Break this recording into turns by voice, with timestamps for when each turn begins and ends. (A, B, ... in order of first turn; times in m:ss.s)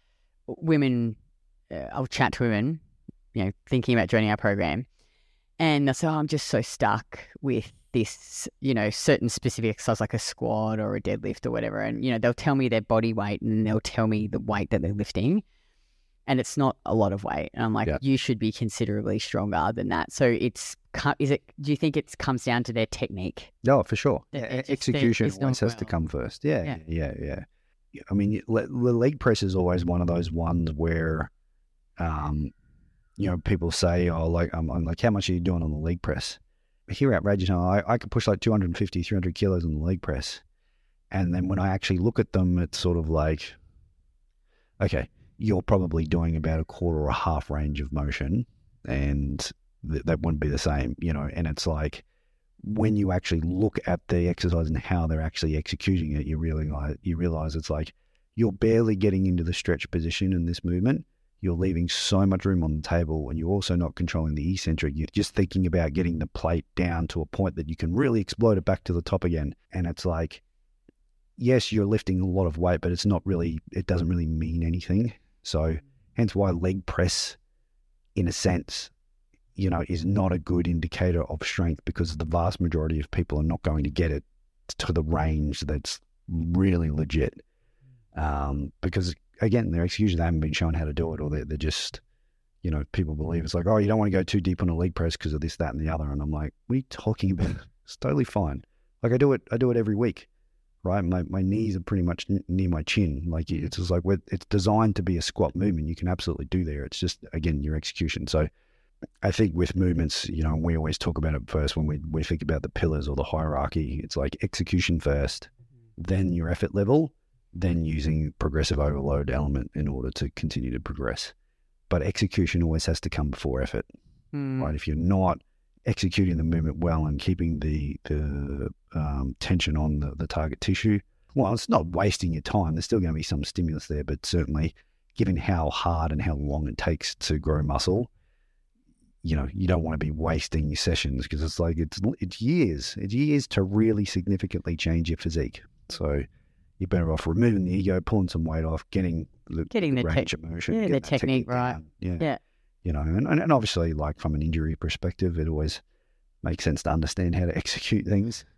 0:00.5-0:01.2 A
0:01.7-0:02.8 A
0:03.3-0:04.8 A
0:05.6-0:15.4 A
0:16.2-0:23.5 A
0:23.6-0:31.3 B
0:24.3-0:25.9 A
0:32.0-0:32.5 B
0:33.2-0:40.4 B
0:41.1-0:43.6 B
0:44.8-0:52.0 B
0:52.6-1:10.4 B
1:11.4-1:17.4 B
1:18.1-1:18.9 B
1:19.6-1:27.4 B
1:28.1-1:32.0 B
1:32.6-1:40.3 B
1:40.8-1:48.5 B
1:49.2-2:01.3 B
2:01.9-2:03.9 B
2:04.3-2:04.7 A
2:04.6-2:18.1 B
2:19.2-2:26.2 B
2:26.8-2:32.2 B
2:29.7-2:32.4 A
2:32.8-2:35.8 B
2:36.4-2:38.4 B